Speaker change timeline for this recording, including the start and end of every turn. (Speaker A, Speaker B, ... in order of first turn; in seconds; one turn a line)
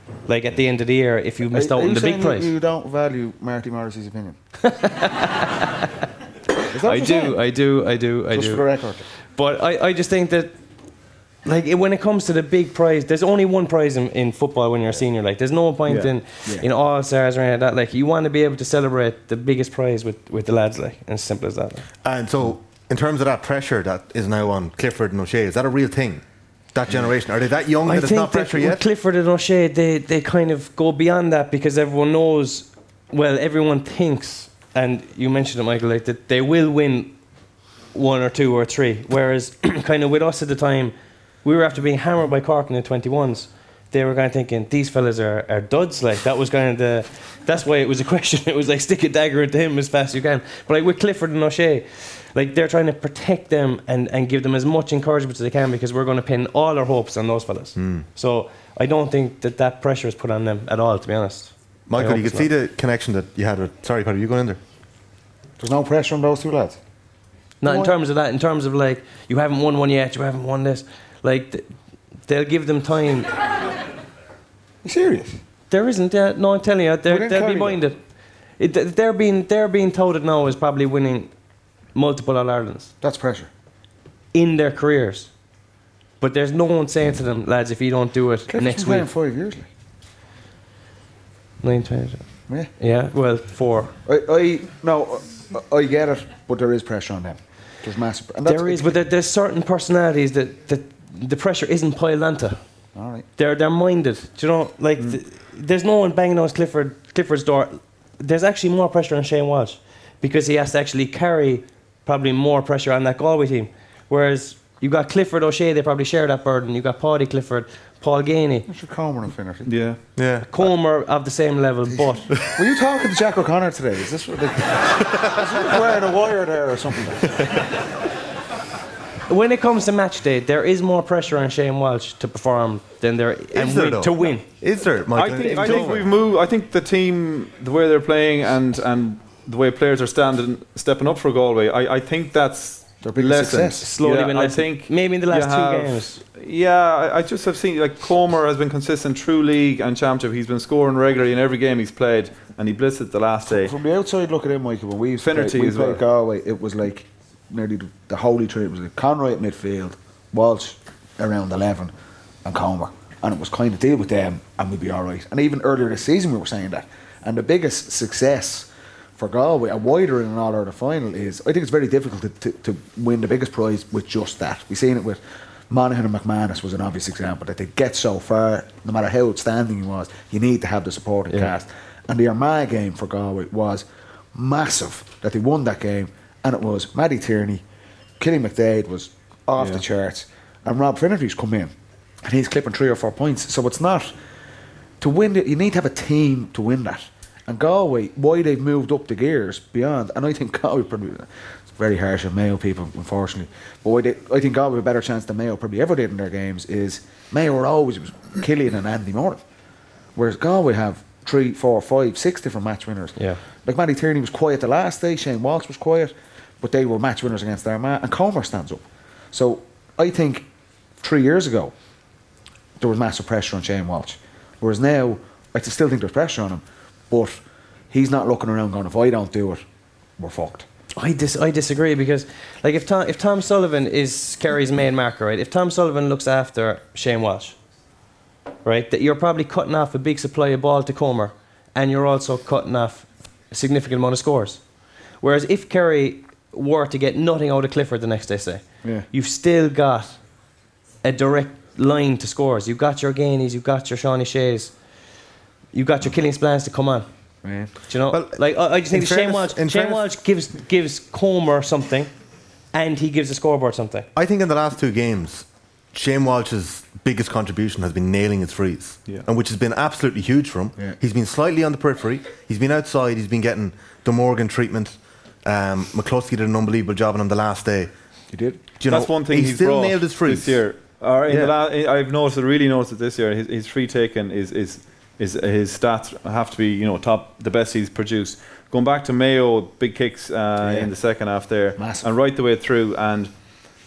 Speaker A: 0.2-2.5
Speaker B: 1.5-4.4
Speaker A: 4.6-5.5
Speaker B: 6.7-7.4
Speaker A: 6.7-10.6
Speaker B: 8.3-9.1
Speaker A: 11.4-21.9
Speaker C: 15.9-16.1
Speaker D: 22.0-28.8
Speaker A: 27.9-37.1
Speaker A: 37.9-62.5
Speaker D: 57.8-58.1
Speaker D: 61.9-64.6
Speaker B: 65.6-66.8
Speaker A: 67.6-73.3
Speaker B: 67.6-67.9
Speaker B: 74.8-75.4
Speaker A: 75.7-78.0
Speaker B: 77.1-77.8
Speaker A: 78.6-81.3
Speaker A: 81.9-82.9
Speaker B: 83.0-83.5
Speaker A: 84.3-85.3
Speaker A: 86.2-89.1
Speaker B: 88.5-89.7
Speaker A: 91.6-93.9
Speaker B: 94.0-98.9
Speaker A: 98.5-102.7
Speaker B: 103.0-103.3
Speaker A: 103.4-118.7
Speaker B: 118.7-119.7
Speaker C: 119.7-120.1
Speaker D: 120.2-120.5
Speaker A: 120.5-122.3
Speaker B: 122.0-127.4
Speaker A: 129.3-134.5
Speaker D: 133.5-136.1
Speaker C: 135.1-153.8
Speaker A: 135.2-136.0
Speaker B: 143.0-143.9
Speaker A: 143.8-146.2
Speaker B: 153.5-161.9
Speaker C: 155.2-156.0
Speaker B: 162.4-183.8
Speaker B: 184.3-187.6
Speaker B: 188.2-194.1
Speaker C: 189.6-189.8
Speaker B: 195.0-209.4
Speaker B: 210.2-220.4
Speaker A: 213.2-213.4
Speaker B: 221.0-221.7
Speaker B: 222.8-227.4
Speaker B: 227.9-229.6
Speaker B: 230.2-230.7
Speaker A: 231.0-237.6
Speaker A: 238.6-244.7
Speaker A: 245.2-250.3
Speaker A: 251.0-254.7
Speaker A: 255.7-257.1
Speaker B: 257.4-257.7
Speaker A: 257.9-262.1
Speaker D: 258.1-260.1
Speaker A: 262.7-264.1
Speaker D: 264.1-277.9
Speaker B: 278.3-278.6
Speaker D: 278.8-281.5
Speaker C: 278.9-293.3
Speaker B: 290.6-290.9
Speaker B: 291.8-292.1